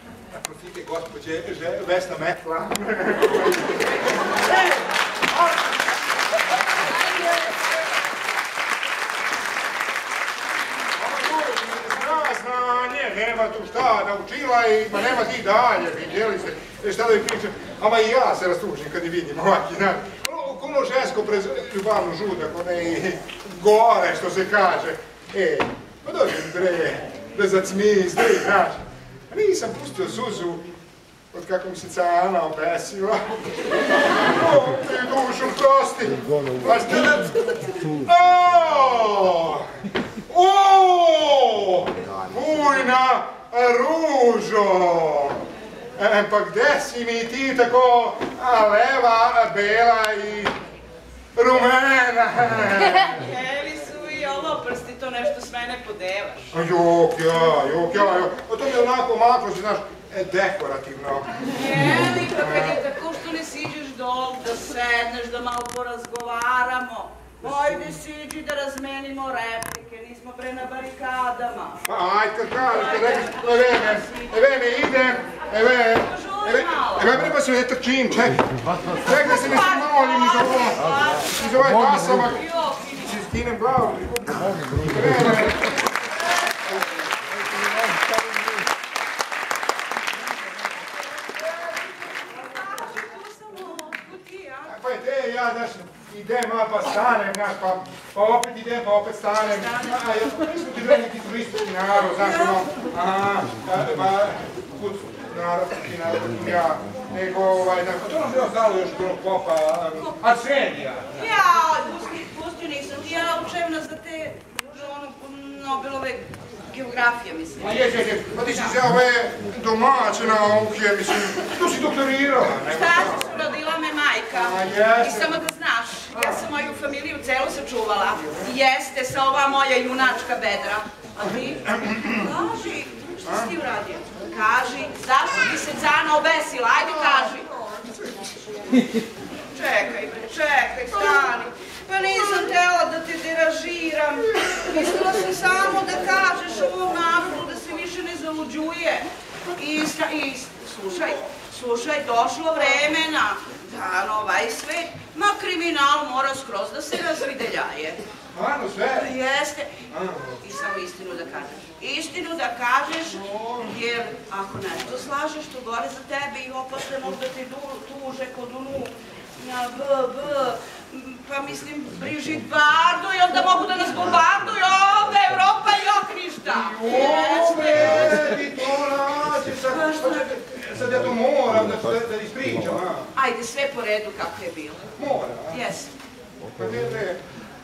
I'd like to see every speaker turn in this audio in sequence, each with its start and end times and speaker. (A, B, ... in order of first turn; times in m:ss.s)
0:00.3-0:05.7 A
0:11.0-0:28.8 A
0:29.3-0:30.6 A
0:31.3-0:39.7 A
0:37.2-0:38.0 B
0:40.3-0:45.4 A
0:46.0-0:50.6 A
0:51.4-0:53.2 A
0:52.8-0:56.5 B
0:56.5-1:01.4 A
1:01.4-1:11.8 B
1:02.2-1:02.8 A
1:11.9-1:22.4 A
1:12.6-1:14.8 B
1:15.6-1:17.1 B
1:19.0-1:21.6 B
1:22.2-1:23.2 B
1:23.0-1:25.7 A
1:32.0-1:34.8 B
1:34.7-1:51.3 A
1:39.3-1:40.4 B
1:41.9-1:42.7 B
1:50.0-1:50.3 B
1:51.1-1:58.8 B
1:57.6-2:03.3 A
2:02.6-2:17.5 B
2:04.3-2:05.4 A
2:11.6-2:12.3 A
2:13.2-2:13.5 A
2:16.8-2:18.4 A
2:19.5-2:38.0 B
2:38.3-2:39.1 A
2:38.9-2:39.8 B
2:39.9-2:40.4 A
2:40.4-2:58.4 B
2:43.1-2:43.8 A
2:56.4-3:03.1 A
2:59.7-3:00.3 B
3:03.1-3:04.9 B
3:05.0-3:05.6 A
3:05.5-3:05.9 B
3:06.5-3:07.2 A